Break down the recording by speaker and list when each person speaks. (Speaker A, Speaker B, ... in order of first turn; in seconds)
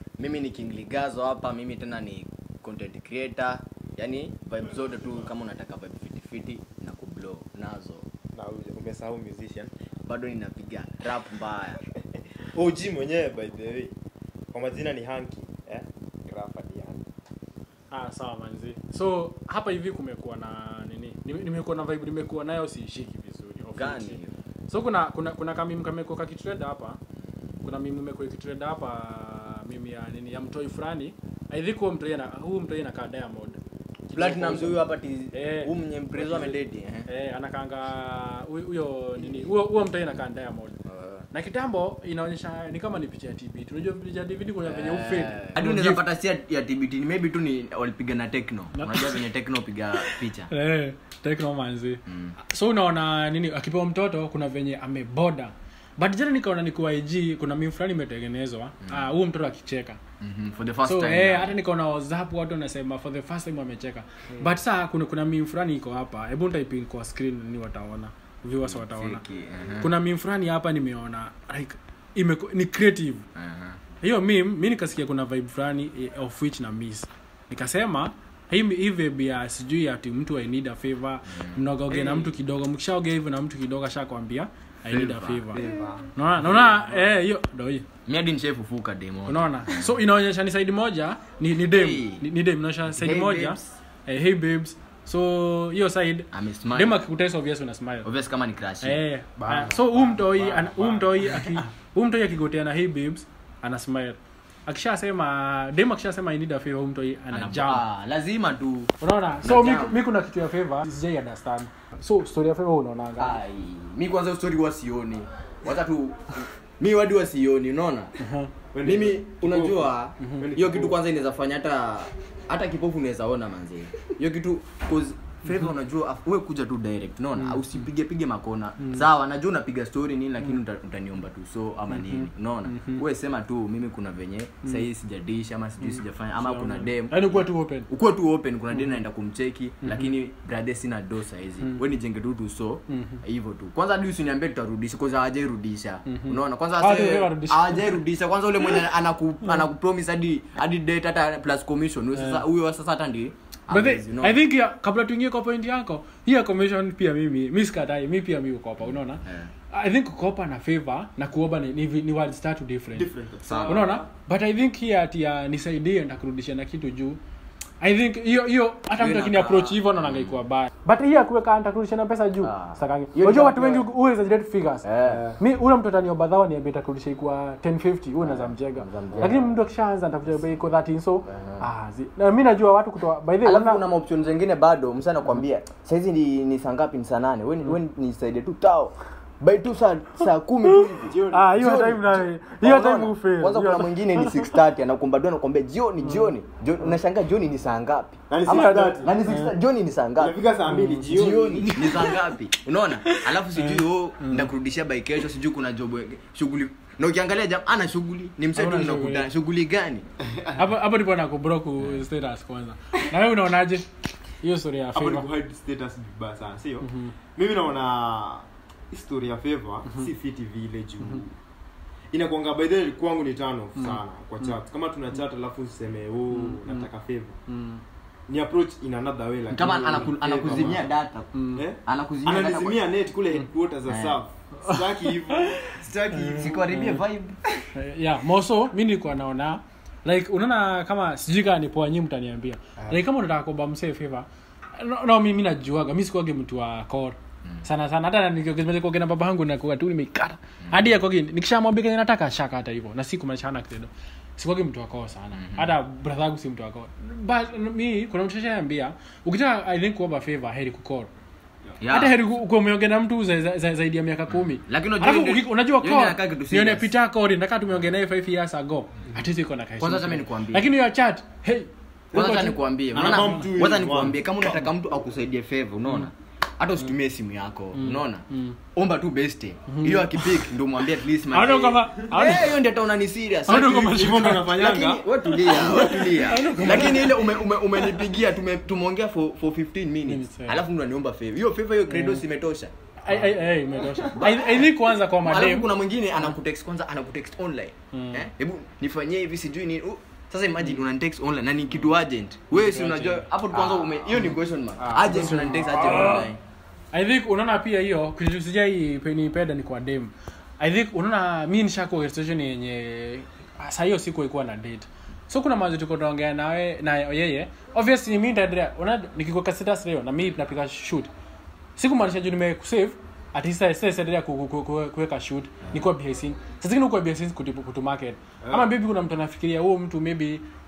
Speaker A: 0.2-8.1, 10.1-11.8, 23.8-24.3, 34.1-37.1, 40.9-41.2, 44.6-50.5, 52.1-52.4, 60.2-61.6, 68.6-69.9, 73.3-73.8, 84.9-85.6, 86.5-86.8, 88.1-90.0, 91.6-92.3, 92.9-93.8, 96.3-97.0, 98.0-99.0, 107.3-110.0, 113.2-118.1, 118.8-154.4, 158.8-159.5, 163.5-163.9, 168.9-170.4, 172.4-173.9, 174.8-175.3, 178.2-179.5, 181.3-181.6, 183.4-200.4, 201.1-210.1, 229.5-231.3, 231.8-232.8, 233.9-234.2, 236.3-237.4, 255.4-255.7, 261.8-262.2, 264.4-266.9, 269.8-270.7, 272.1-292.7, 294.1-306.4
Speaker B: 8.3-9.7, 12.4-13.9, 14.5-17.0, 81.9-82.4, 85.5-86.1, 99.4-101.7, 118.7-121.0, 163.0-164.1, 191.1-191.5, 198.3-199.2, 200.2-201.8, 210.3-210.6, 214.9-221.3, 222.1-227.4, 228.3-230.9, 231.6-236.7, 272.9-274.2, 283.5-287.1, 293.8-294.1, 304.8-306.1, 328.4-328.7
Speaker C: 17.9-27.0, 27.6-33.6, 34.1-34.8, 35.3-40.8, 41.3-46.0, 48.8-49.2, 50.0-60.0, 60.8-69.2, 69.8-73.3, 74.0-85.6, 86.2-87.9, 89.3-98.1, 98.8-107.8, 109.0-113.4, 118.2-118.5, 127.4-127.6, 128.8-129.1, 131.9-133.0, 135.9-137.9, 139.8-140.1, 142.9-143.2, 146.1-148.0, 152.2-152.4, 153.7-163.1, 163.7-167.2, 167.8-174.9, 175.4-183.8, 190.7-194.6, 198.5-199.5, 200.7-202.3, 203.0-204.5, 208.6-209.3, 210.6-215.3, 216.8-217.1, 223.8-224.5, 226.3-226.9, 227.5-227.8, 231.3-231.6, 234.6-237.0, 237.7-244.3, 244.8-261.1, 261.9-273.4, 277.7-278.6, 279.7-280.5, 281.3-282.6, 283.5-284.5, 285.7-287.5, 290.1-290.6, 291.9-292.2, 293.0-295.7, 297.9-298.2, 302.5-304.0, 305.0-306.3, 306.9-321.1, 321.8-330.4